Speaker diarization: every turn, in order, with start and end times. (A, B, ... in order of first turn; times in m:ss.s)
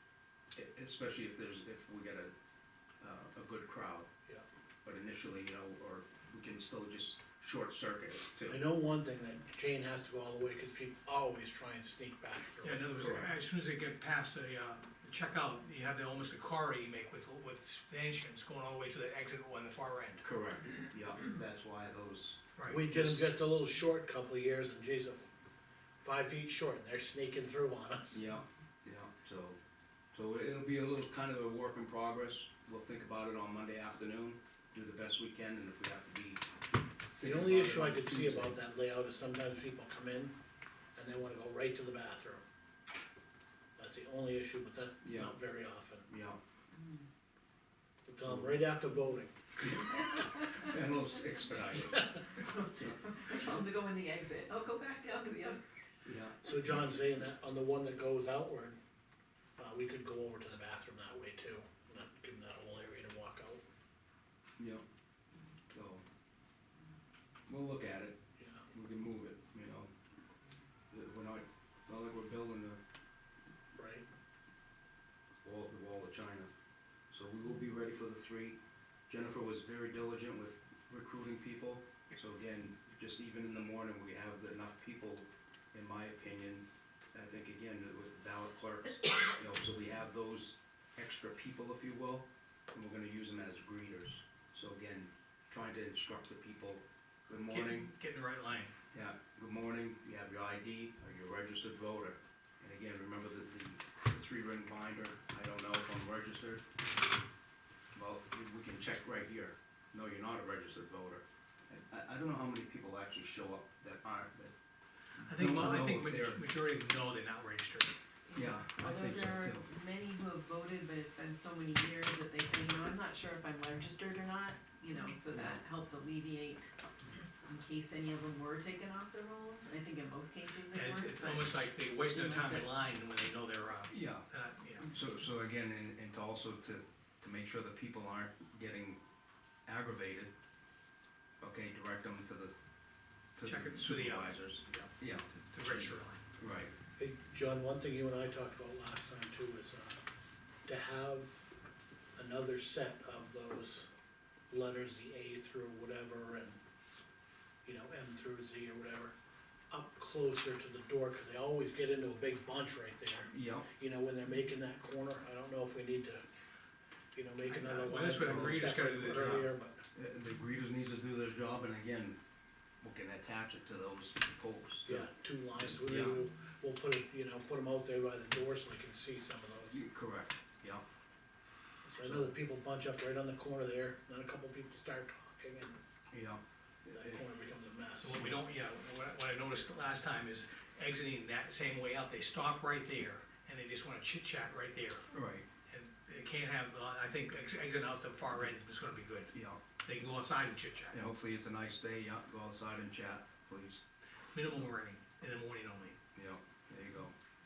0:00.6-0:02.3 A
0:03.0-0:04.1 A
0:04.8-0:08.6 A
0:08.5-0:12.9 B
0:12.6-0:20.2 C
0:13.0-0:13.3 A
0:20.2-0:23.2 A
0:22.6-0:22.8 C
0:22.7-0:25.3 B
0:26.0-0:28.2 B
0:28.1-0:29.6 A
0:30.1-0:36.4 A
0:37.2-0:38.5 A
0:37.2-0:40.4 B
0:41.0-0:42.4 B
0:43.8-0:46.1 B
0:45.0-0:45.3 A
0:46.1-0:46.4 A
0:46.8-0:47.0 D
0:48.1-0:49.3 B
0:48.3-0:48.6 A
0:49.6-0:53.4 A
0:52.5-0:55.6 D
0:56.0-0:56.4 A
0:56.4-0:58.8 B
0:59.6-1:03.6 B
1:04.6-1:04.8 A
1:05.7-1:06.0 A
1:07.5-1:08.2 A
1:08.4-1:08.6 B
1:08.7-1:09.9 A
1:10.9-1:12.8 A
1:13.8-1:14.1 B
1:15.4-1:16.5 A
1:17.1-1:18.6 A
1:19.1-1:37.9 A
1:37.5-1:38.7 C
1:38.9-1:46.6 A
1:48.0-1:54.5 A
1:55.2-1:56.4 A
1:55.2-1:57.9 C
1:58.3-2:06.8 D
1:58.4-1:59.7 A
2:05.3-2:05.6 A
2:07.4-2:11.6 D
2:10.7-2:14.9 C
2:12.1-2:12.7 D
2:13.9-2:14.3 A
2:14.9-2:19.0 A
2:19.7-2:20.3 A
2:21.4-2:22.6 A
2:23.4-2:26.7 A
2:23.4-2:26.2 C
2:27.0-2:30.0 B
2:30.7-2:31.5 B
2:32.2-2:33.9 B
2:34.5-2:36.6 B
2:37.6-2:39.2 B
2:39.7-2:46.2 B
2:43.3-2:43.7 A
2:47.1-2:49.8 B
2:47.5-2:49.4 C
2:48.2-2:52.2 A
2:52.8-2:55.1 A
2:54.9-2:59.8 B
2:55.6-2:56.2 A
2:59.7-3:00.8 A
3:01.9-3:02.3 A
3:02.0-3:05.8 B
3:06.1-3:07.2 A
3:06.8-3:08.4 B
3:08.0-3:15.1 C
3:15.1-3:15.5 A
3:15.7-3:19.3 C
3:19.3-3:19.6 A
3:19.8-3:21.0 C
3:20.9-3:23.8 A
3:24.3-3:26.0 C
3:26.2-3:27.2 A